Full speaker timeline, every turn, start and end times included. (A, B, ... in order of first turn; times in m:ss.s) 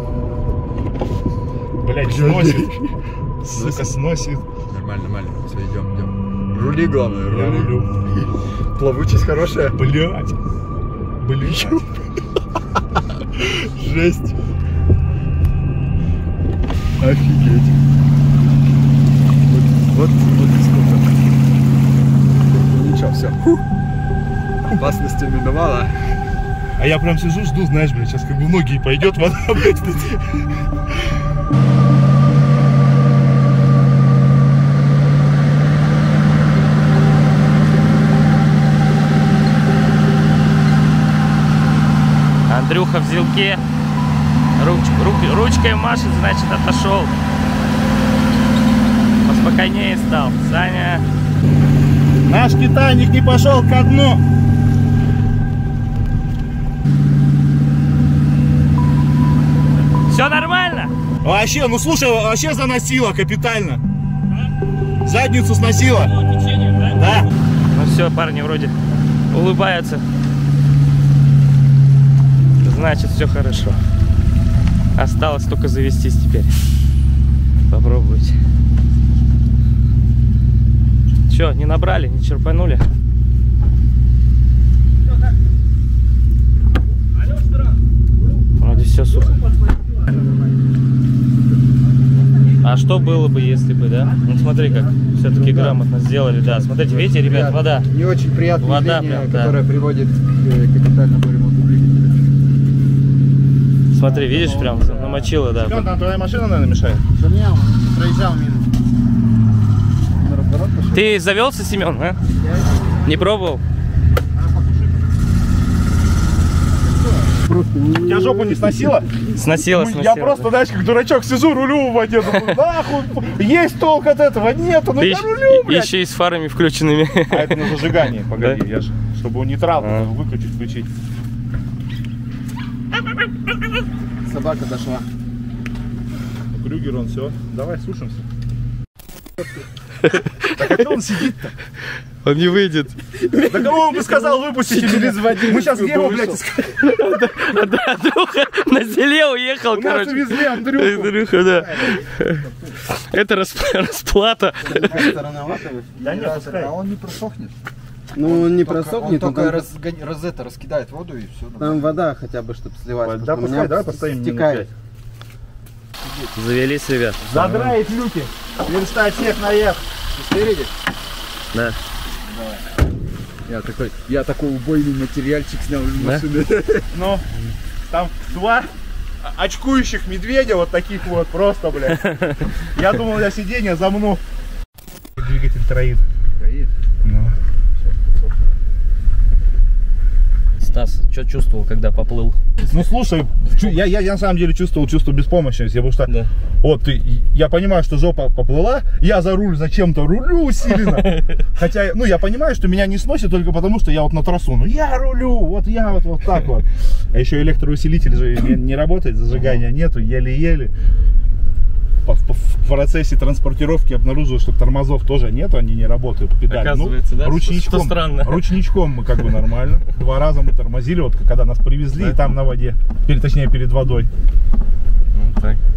0:01.8-0:02.8 A
0:02.0-0:03.9 B
0:03.4-0:04.5 A
0:04.7-0:09.8 B
0:07.3-0:07.9 A
0:09.7-0:10.4 A
0:11.2-0:11.8 A
0:11.4-0:12.0 B
0:13.2-0:14.3 B
0:17.0-0:17.8 B
0:19.4-0:21.3 B
0:22.6-0:23.6 B
0:24.7-0:26.1 B
0:26.8-0:30.3 A
0:42.5-0:43.6 C
0:44.6-0:47.1 C
0:49.2-0:51.0 C
0:52.3-0:54.2 A
1:00.1-1:00.9 C
1:01.2-1:03.8 A
1:05.0-1:06.1 A
1:06.4-1:06.9 C
1:06.9-1:07.3 A
1:07.7-1:08.7 C
1:09.3-1:10.0 C
1:12.6-1:13.8 C
1:15.0-1:16.6 C
1:17.7-1:18.4 C
1:21.3-1:22.9 C
1:28.6-1:29.4 C
1:32.6-1:37.9 C
1:35.2-1:35.8 B
1:36.4-1:42.3 B
1:38.6-1:39.6 C
1:43.9-1:45.8 C
1:44.0-1:45.3 B
1:45.6-1:47.0 A
1:47.2-1:48.7 D
1:50.2-1:51.2 B
1:50.9-1:52.2 C
1:52.4-1:53.3 D
1:53.0-1:53.6 C
1:57.0-1:58.0 B
1:57.9-1:58.2 D
1:58.0-1:59.1 A
1:59.4-2:00.5 C
1:59.6-2:05.9 A
2:05.0-2:08.6 C
2:07.3-2:10.9 A
2:09.8-2:10.1 C
2:14.2-2:15.1 D
2:16.5-2:18.3 A
2:20.1-2:20.5 C
2:20.4-2:21.6 A
2:22.2-2:23.0 C
2:23.2-2:25.6 D
2:23.4-2:26.8 A
2:26.7-2:35.2 C
2:29.7-2:31.2 A
2:31.6-2:32.0 D
2:34.6-2:36.2 D
2:34.7-2:35.2 B
2:36.0-2:37.6 B
2:36.0-2:36.7 A
2:38.1-2:39.7 D
2:38.2-2:41.9 B
2:41.6-2:44.7 D
2:43.0-2:44.7 A
2:46.0-2:46.3 B
2:46.4-2:47.8 C
2:47.3-2:49.8 A
2:50.1-2:50.7 B
2:51.5-2:51.8 C
2:52.3-2:52.6 B
2:53.5-2:56.9 B
2:56.0-2:56.2 C
2:56.9-2:57.3 A
2:57.9-3:04.2 A
3:05.2-3:06.0 A
3:06.4-3:06.7 B
3:07.0-3:07.4 A
3:10.6-3:12.4 C
3:12.7-3:30.7 A
3:21.1-3:21.4 C
3:32.0-3:44.1 A
3:36.5-3:38.5 C
3:45.1-3:45.6 C